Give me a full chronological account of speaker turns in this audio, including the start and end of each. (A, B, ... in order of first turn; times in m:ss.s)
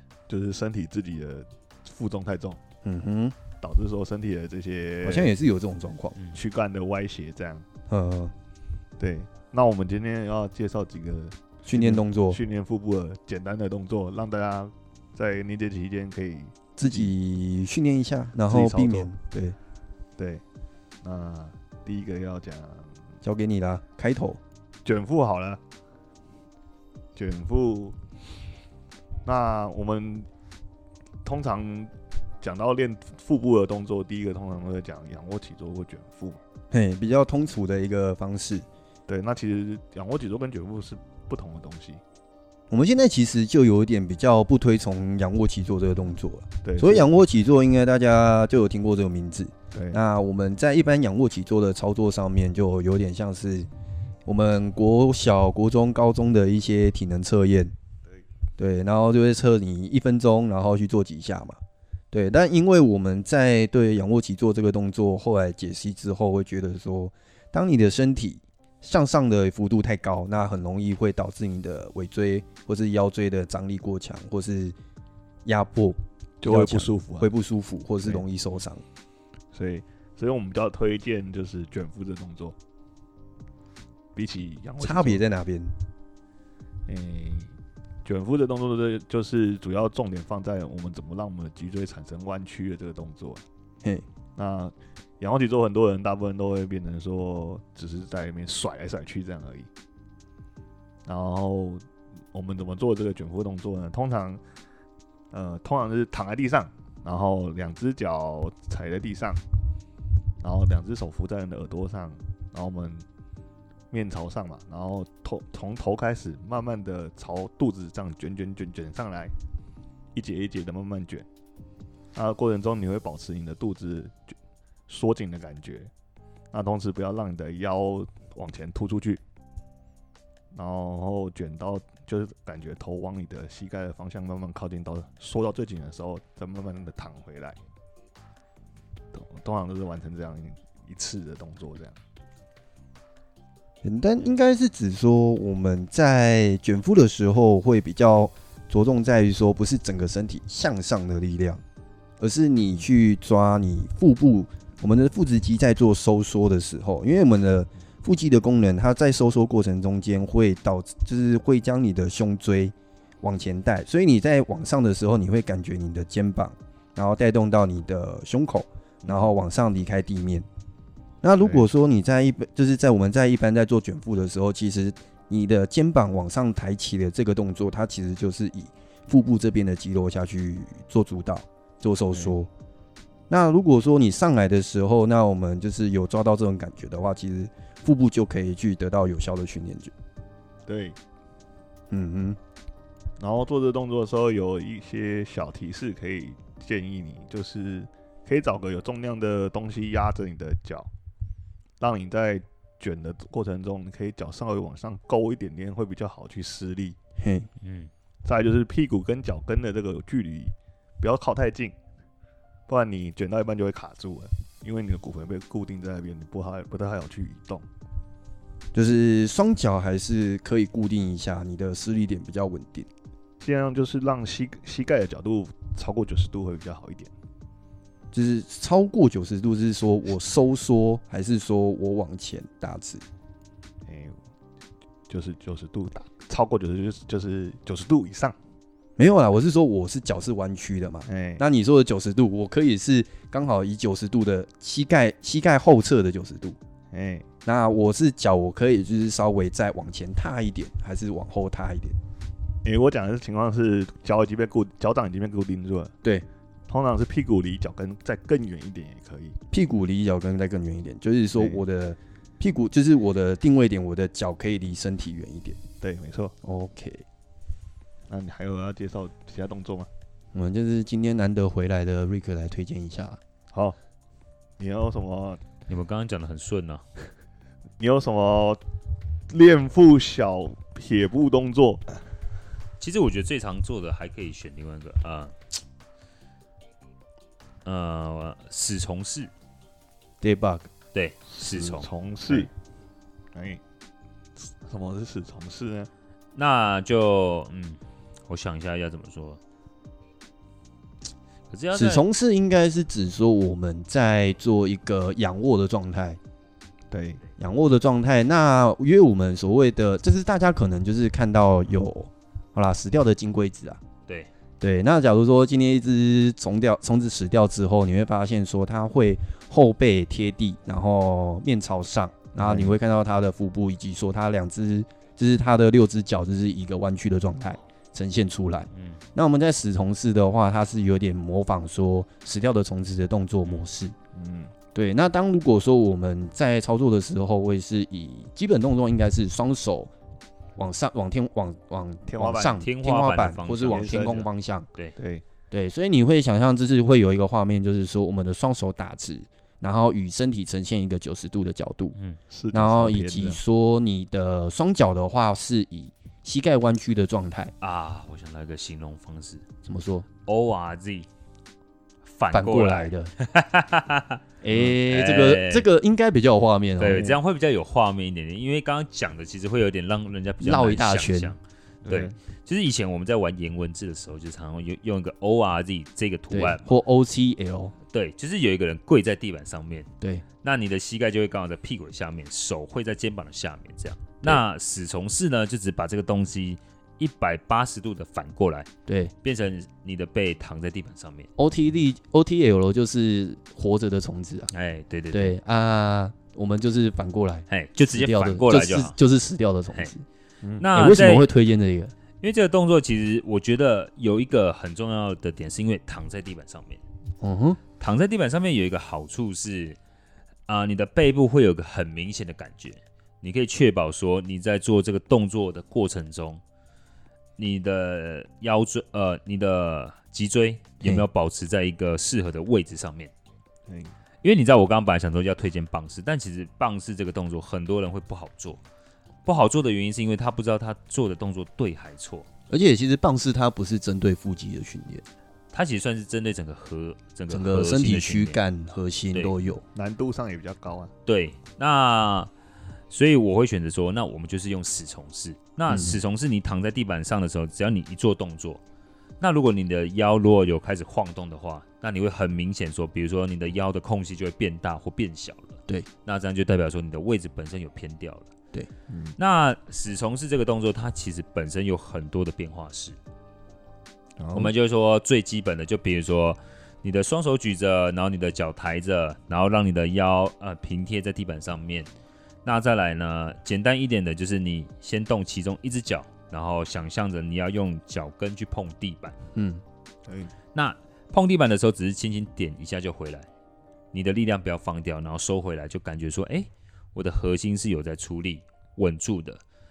0:00.3-0:02.6 A
0:02.8-0:03.4 B
0:03.6-0:05.3 A
0:05.0-0:06.2 B
0:06.3-0:07.6 A
0:07.9-0:08.3 B
0:09.0-0:17.1 A
0:11.6-0:12.4 B
0:16.8-0:19.6 B
0:18.5-0:19.1 A
0:20.2-0:20.4 A
0:21.0-0:23.0 A
0:23.2-0:24.4 B
0:24.8-0:25.6 A
0:27.2-0:28.0 A
0:29.2-0:30.3 A
0:31.2-0:36.4 A
0:36.7-0:38.7 B
0:39.1-0:42.0 A
0:42.7-0:53.7 B
0:46.6-0:47.1 A
0:49.7-0:50.0 A
0:54.3-0:57.7 B
0:58.6-1:01.6 B
1:02.1-1:14.8 B
1:15.4-1:18.8 B
1:16.4-1:17.3 A
1:19.5-1:22.6 A
1:24.2-1:25.2 A
1:24.8-1:25.8 B
1:26.9-1:33.4 A
1:34.4-1:39.7 A
1:41.0-1:44.4 A
1:45.3-1:49.4 A
1:50.4-1:53.0 A
1:53.9-1:59.3 A
2:00.2-2:01.3 A
2:02.2-2:04.4 A
2:04.9-2:05.9 A
2:06.5-2:09.2 A
2:10.5-2:17.6 A
2:19.1-2:22.0 A
2:23.8-2:31.6 B
2:32.2-2:50.5 B
2:49.0-2:49.3 A
2:51.2-3:02.5 B
2:51.4-2:51.7 A
3:03.3-3:09.9 B
3:10.7-3:11.0 A
3:11.9-3:12.4 B
3:13.2-3:20.9 A
3:21.8-3:27.0 A
3:27.2-3:27.5 B
3:27.6-3:27.9 C
3:28.2-3:31.8 A
3:32.7-3:37.7 A
3:38.7-3:42.9 B
3:43.4-3:47.1 A
3:48.1-3:53.0 B
3:53.9-3:54.2 A
3:55.1-3:58.4 A
3:59.0-4:06.6 B
4:01.1-4:01.4 A
4:06.9-4:07.3 A
4:07.5-4:12.0 B
4:12.6-4:16.0 A
4:16.7-4:19.4 A
4:19.5-4:25.6 B
4:25.8-4:26.3 A
4:26.4-4:27.0 B
4:28.1-4:29.9 A
4:30.3-4:33.2 B
4:34.6-4:35.4 A
4:35.7-4:36.8 C
4:37.8-4:38.6 A
4:39.3-4:41.8 A
4:42.8-4:45.4 C
4:47.6-4:49.3 C
4:50.2-4:50.7 B
4:50.9-4:51.9 C
4:51.3-4:52.5 A
4:53.3-4:53.6 A
4:54.4-4:55.9 A
4:56.4-4:59.4 C
5:01.5-5:02.0 C
5:01.7-5:06.2 B
5:06.9-5:07.2 A
5:07.4-5:13.8 B
5:14.6-5:34.0 B
5:22.4-5:22.8 A
5:28.7-5:29.0 C
5:34.1-5:34.5 A
5:34.8-5:39.9 B
5:40.6-5:44.7 B
5:42.1-5:42.6 A
5:42.6-5:44.2 C
5:43.6-5:44.3 A
5:45.0-5:45.2 A
5:45.5-5:52.0 B
5:52.3-5:53.4 A
5:52.5-5:57.5 B
5:57.6-5:59.5 C
5:59.6-6:00.1 B
6:00.2-6:01.1 C
6:02.0-6:04.2 C
6:02.3-6:03.1 B
6:04.4-6:07.2 B
6:04.5-6:04.8 A
6:04.8-6:05.7 C
6:06.8-6:16.7 C
6:10.4-6:11.4 B
6:11.8-6:12.1 A
6:16.3-6:17.8 B
6:17.9-6:19.9 C
6:20.4-6:28.7 C
6:28.9-6:29.1 B
6:29.2-6:31.3 C
6:31.4-6:34.5 B
6:34.5-6:35.4 C
6:35.1-6:40.0 B
6:37.5-6:39.0 C
6:40.6-6:41.3 C
6:40.7-6:41.9 B
6:42.2-6:46.8 C
6:47.2-6:47.6 B
6:47.8-6:49.8 C
6:50.5-6:56.4 C
6:57.4-7:03.1 C
7:03.7-7:03.9 A
7:04.2-7:08.6 C
7:09.2-7:12.3 C
7:12.5-7:15.0 B
7:15.5-7:18.4 C
7:17.3-7:19.6 B
7:19.7-7:20.9 A
7:21.1-7:22.3 C
7:22.9-7:28.6 C
7:25.7-7:26.0 B
7:29.2-7:38.3 C
7:38.9-7:39.2 A
7:39.2-7:43.0 C
7:44.2-7:44.5 A
7:44.3-7:51.9 C
7:52.4-7:59.2 C
7:59.4-7:59.6 B
8:00.1-8:00.3 A
8:00.5-8:03.3 C
8:03.9-8:09.4 C